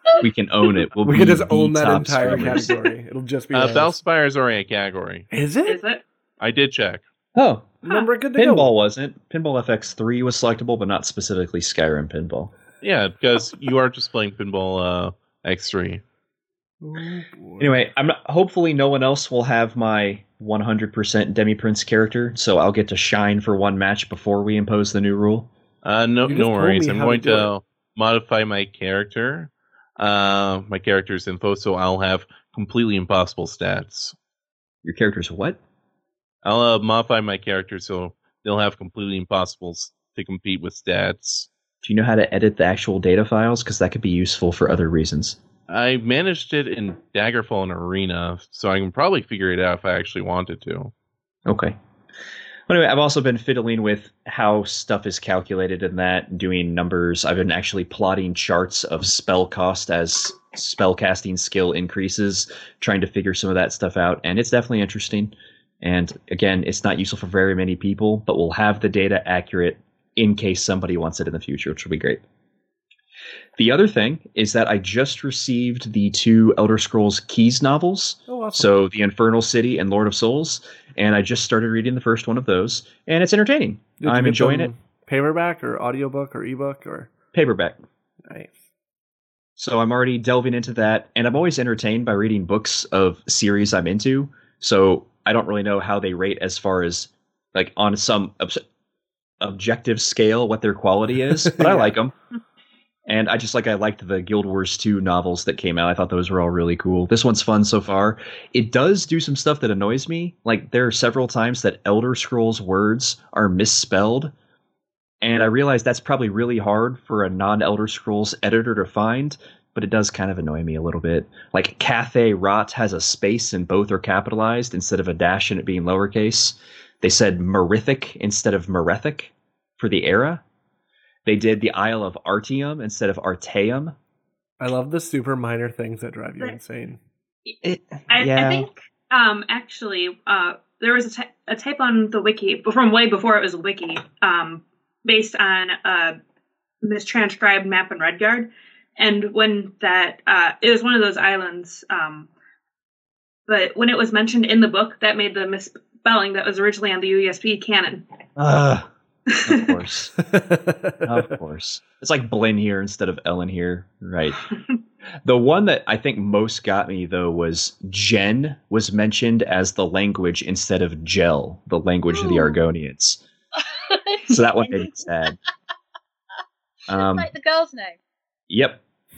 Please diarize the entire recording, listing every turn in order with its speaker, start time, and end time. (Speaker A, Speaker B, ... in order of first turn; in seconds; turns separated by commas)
Speaker A: 0.2-2.7, Speaker B: 1.0-4.0, Speaker C: 3.5-5.3, Speaker B: 5.3-5.8, Speaker D: 5.6-6.0, Speaker C: 6.4-7.0, Speaker A: 7.3-7.7, Speaker B: 7.8-8.7, Speaker A: 8.4-12.5, Speaker C: 12.8-16.0, Speaker B: 16.8-17.7, Speaker A: 17.6-25.5, Speaker C: 25.8-34.2, Speaker B: 26.2-27.5, Speaker A: 34.8-35.6, Speaker C: 36.4-41.5, Speaker A: 41.8-45.4, Speaker C: 45.7-50.9, Speaker A: 51.5-51.7, Speaker A: 52.7-72.2, Speaker A: 73.6-84.7, Speaker B: 78.3-78.8, Speaker B: 84.0-87.1, Speaker A: 87.3-87.8, Speaker B: 88.3-88.6, Speaker A: 89.6-98.6, Speaker A: 99.4-102.1, Speaker B: 101.2-101.9, Speaker A: 103.1-114.3, Speaker A: 115.2-130.4, Speaker A: 131.3-133.9, Speaker B: 134.6-137.0, Speaker A: 137.6-138.7, Speaker D: 138.1-146.2, Speaker D: 146.8-152.3, Speaker D: 153.5-158.1, Speaker A: 158.4-158.9, Speaker D: 159.3-159.7, Speaker A: 159.4-160.1, Speaker B: 160.2-161.2, Speaker A: 161.0-164.4, Speaker A: 165.2-173.2, Speaker E: 172.1-172.6, Speaker E: 173.7-175.1, Speaker A: 174.3-175.4, Speaker A: 176.9-177.3, Speaker E: 176.9-178.0, Speaker A: 178.5-178.8